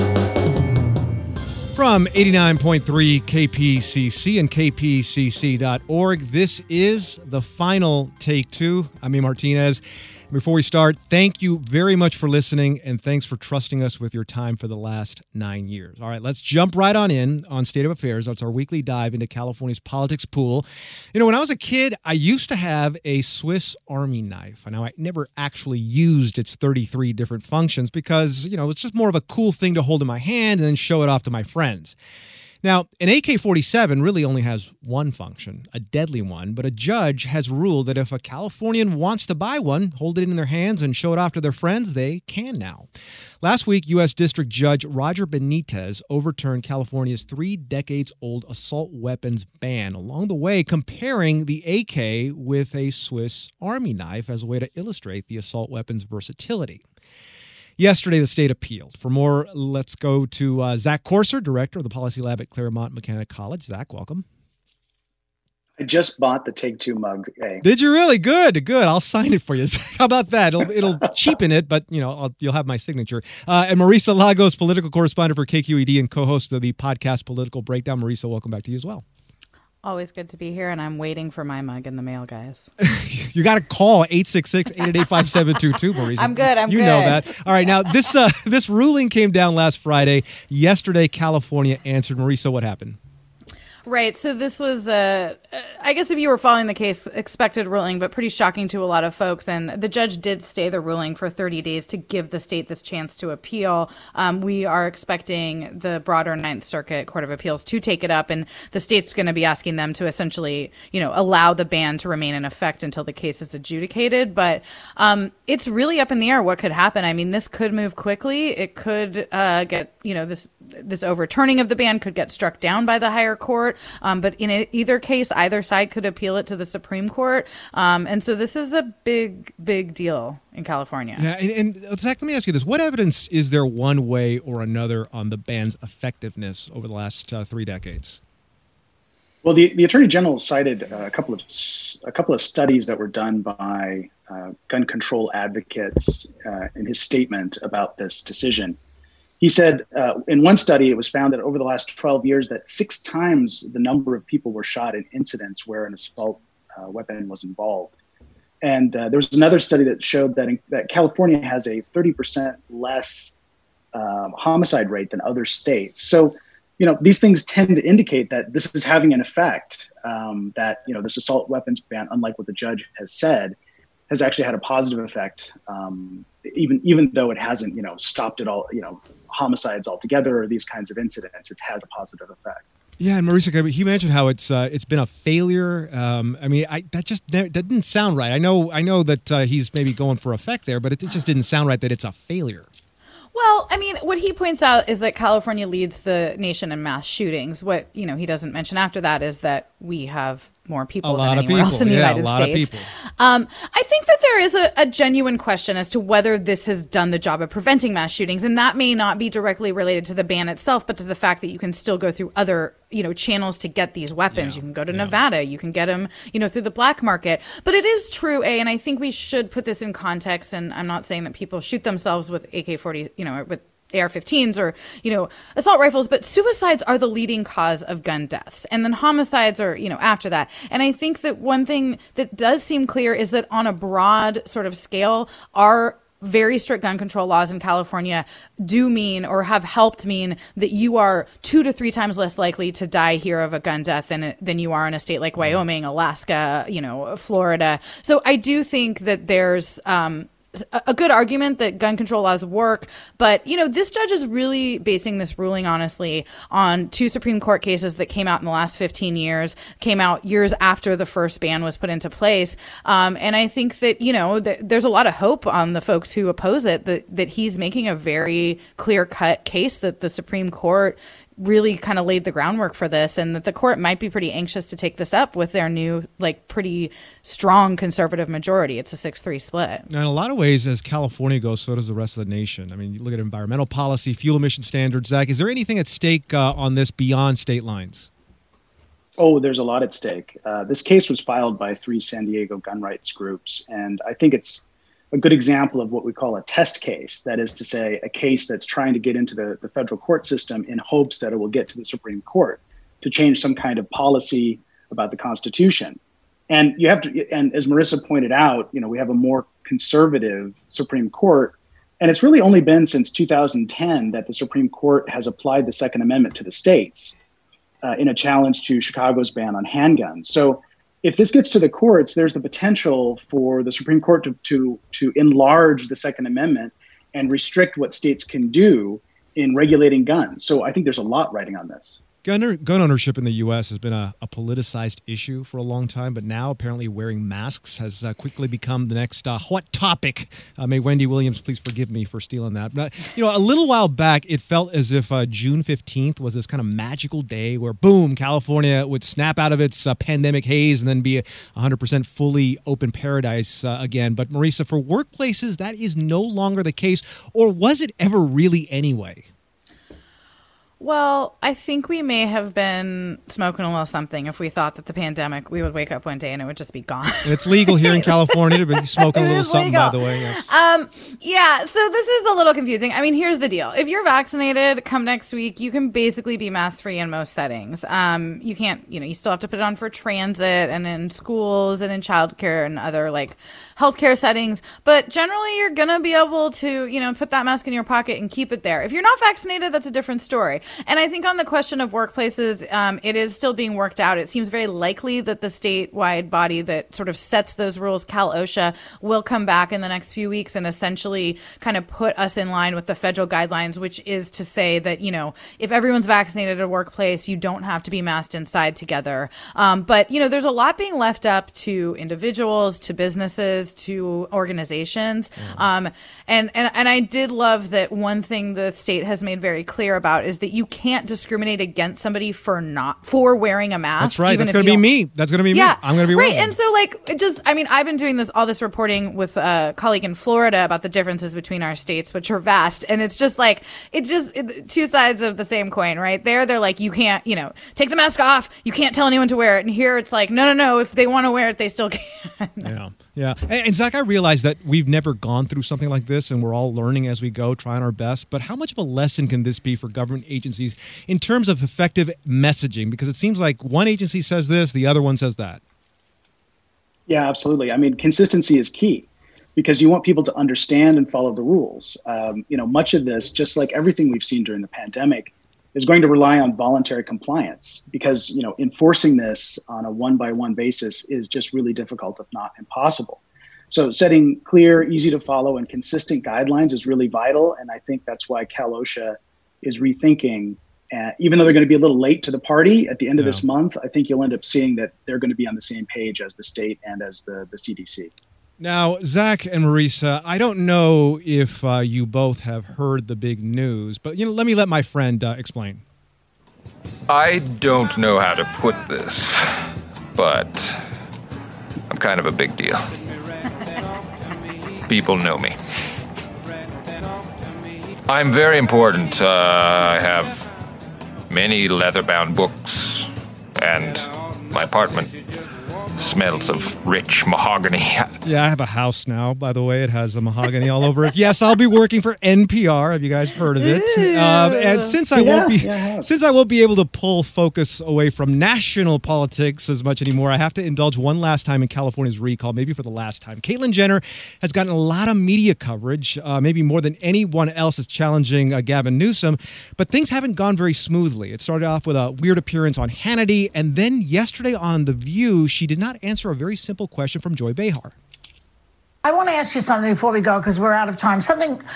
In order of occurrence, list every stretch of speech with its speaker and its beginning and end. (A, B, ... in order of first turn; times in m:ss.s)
0:01.8-0:32.0 A
0:32.6-0:42.9 A
0:43.4-0:56.8 A
0:57.8-1:04.2 A
1:05.8-1:07.6 B
1:07.6-1:19.0 A
1:19.8-1:22.7 C
1:22.8-1:33.0 A
1:26.2-1:27.7 C
1:33.9-2:11.2 C
2:11.2-2:18.2 A
2:19.4-2:28.8 B
2:29.4-2:37.9 B
2:38.6-2:43.3 B
2:43.9-2:53.6 B
2:54.1-3:02.6 B
3:03.0-3:12.7 A
3:13.3-4:39.9 C
3:21.0-3:22.9 A
3:34.3-3:35.2 A
4:39.9-4:48.1 A
4:49.2-5:06.0 B
5:06.5-5:17.2 B
5:17.8-5:32.0 B
5:32.2-5:59.3 A
6:00.8-7:04.8 C
6:07.2-6:10.5 A
6:55.4-6:55.7 A
7:04.0-7:06.6 A
7:05.5-7:22.7 C
7:22.6-7:35.6 A
7:37.1-8:08.1 B
8:03.2-8:03.4 A
8:08.6-8:15.8 A
8:17.1-8:19.6 D
8:20.2-8:20.8 D
8:21.9-8:22.9 D
8:24.9-8:25.6 D
8:28.1-8:30.5 D
8:31.3-8:35.2 D
8:36.0-8:38.1 D
8:38.2-9:08.0 A
8:44.0-8:44.4 B
8:45.1-8:46.1 B
9:09.0-9:11.6 E